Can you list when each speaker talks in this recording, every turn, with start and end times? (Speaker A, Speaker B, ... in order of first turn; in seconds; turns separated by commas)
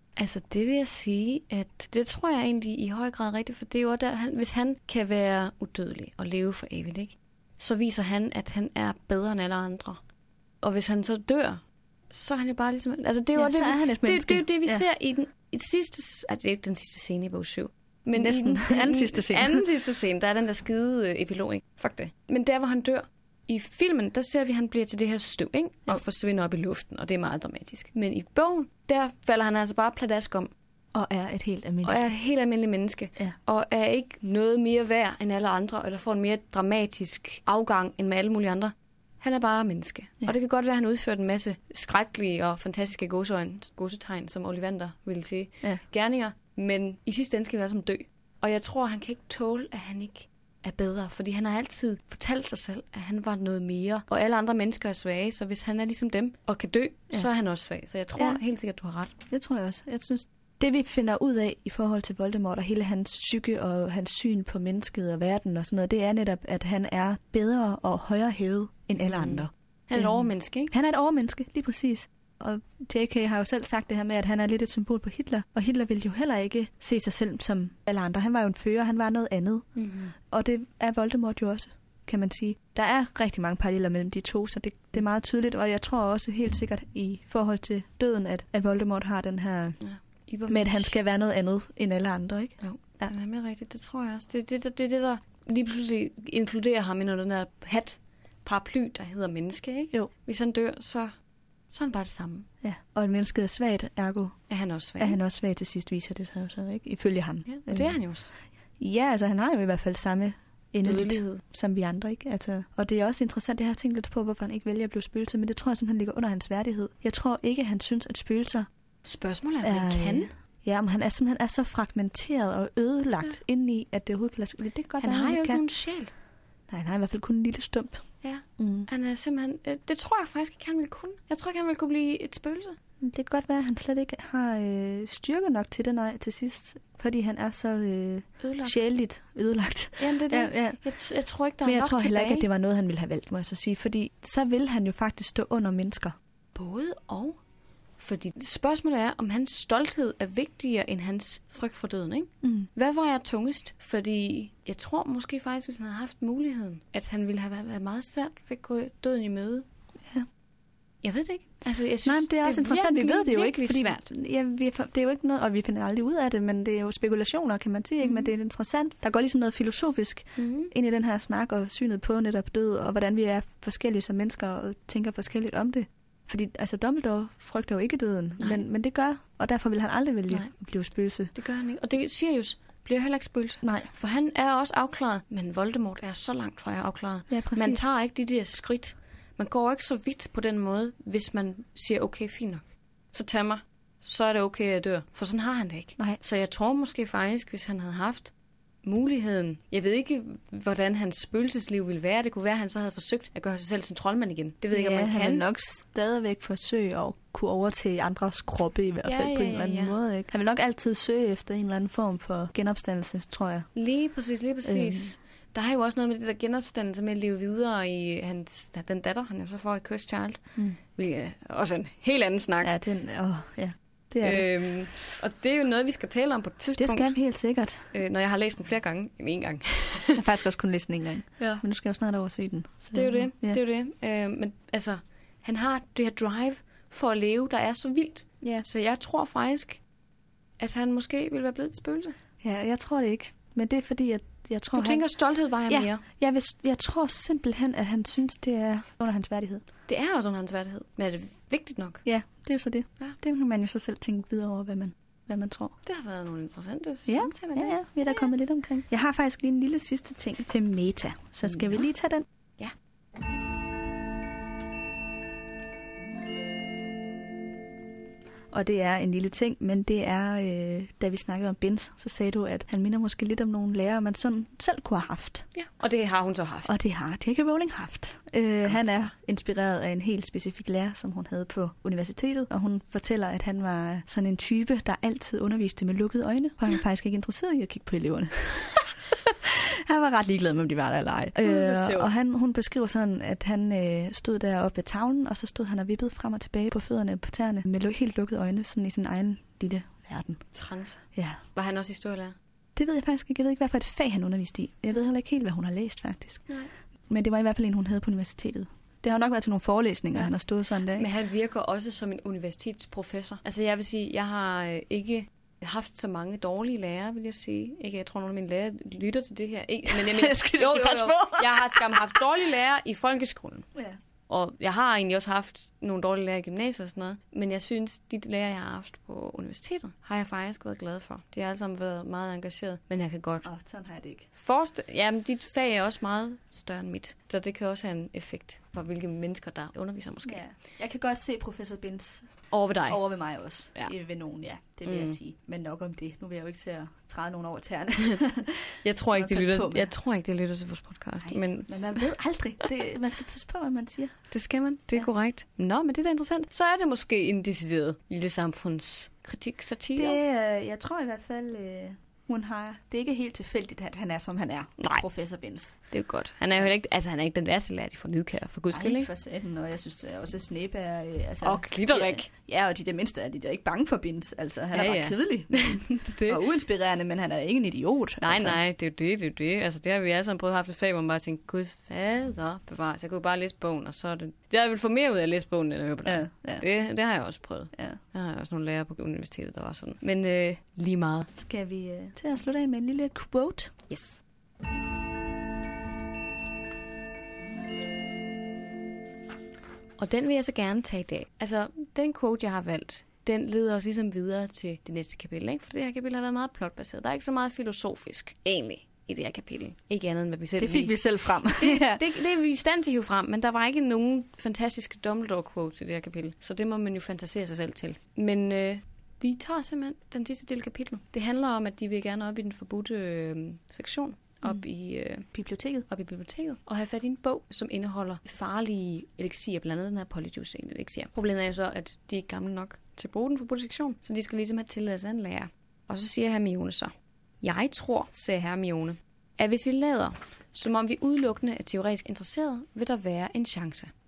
Speaker A: 0.2-10.0, Speaker A: 10.6-30.5, Speaker B: 13.3-14.8, Speaker B: 18.1-19.6, Speaker B: 30.9-32.0, Speaker A: 31.8-59.1, Speaker B: 59.3-89.8, Speaker A: 69.0-70.7, Speaker A: 79.8-80.1, Speaker A: 89.8-91.0, Speaker B: 90.5-93.1, Speaker A: 92.6-101.1, Speaker A: 101.7-102.5, Speaker B: 102.6-108.1, Speaker A: 104.5-105.2, Speaker A: 107.5-108.3, Speaker B: 108.8-118.7, Speaker A: 110.8-111.4, Speaker A: 119.0-120.3, Speaker B: 119.6-125.6, Speaker A: 125.0-126.1, Speaker B: 126.7-128.9, Speaker A: 128.2-132.8, Speaker B: 133.0-140.8, Speaker A: 138.4-138.8, Speaker A: 140.0-142.5, Speaker B: 141.6-146.2, Speaker A: 146.6-147.4, Speaker A: 148.0-159.7, Speaker B: 152.4-152.7, Speaker A: 161.0-164.1, Speaker B: 162.0-181.3, Speaker A: 168.0-168.3, Speaker A: 170.4-170.7, Speaker A: 181.3-205.4, Speaker B: 183.6-183.9, Speaker B: 187.3-187.9, Speaker B: 204.7-213.7, Speaker A: 209.1-210.0, Speaker A: 213.8-222.7, Speaker B: 214.7-215.1, Speaker B: 222.6-224.5, Speaker A: 224.2-227.2, Speaker B: 226.8-227.9, Speaker A: 227.9-230.2, Speaker B: 230.2-233.6, Speaker A: 232.9-239.8, Speaker A: 240.6-242.2, Speaker B: 242.4-245.1, Speaker A: 244.7-246.0, Speaker B: 245.7-249.6, Speaker A: 249.9-252.0, Speaker B: 252.1-255.8, Speaker A: 255.8-258.3, Speaker B: 257.1-262.2, Speaker A: 261.5-261.8, Speaker B: 268.5-275.5, Speaker A: 275.5-276.7, Speaker B: 276.7-300.4, Speaker A: 278.7-279.1, Speaker A: 291.4-292.1, Speaker A: 300.5-302.4, Speaker B: 301.1-301.4, Speaker B: 302.8-306.5, Speaker B: 307.1-311.1, Speaker A: 310.9-323.7, Speaker B: 319.9-322.2, Speaker A: 324.3-333.5, Speaker B: 333.4-334.3, Speaker A: 334.3-340.4, Speaker B: 340.2-349.9, Speaker A: 342.5-343.0, Speaker A: 344.9-345.2, Speaker A: 348.8-352.1, Speaker B: 351.2-354.2, Speaker A: 354.3-360.2, Speaker B: 360.0-365.9, Speaker A: 364.8-365.1, Speaker A: 365.9-369.1, Speaker B: 368.7-378.6, Speaker A: 371.4-372.3, Speaker A: 374.7-376.4, Speaker A: 378.2-391.3, Speaker B: 386.1-386.6, Speaker B: 391.3-393.9, Speaker A: 393.9-394.2, Speaker A: 400.0-425.3, Speaker B: 410.6-412.1, Speaker B: 425.3-425.9, Speaker A: 425.9-443.9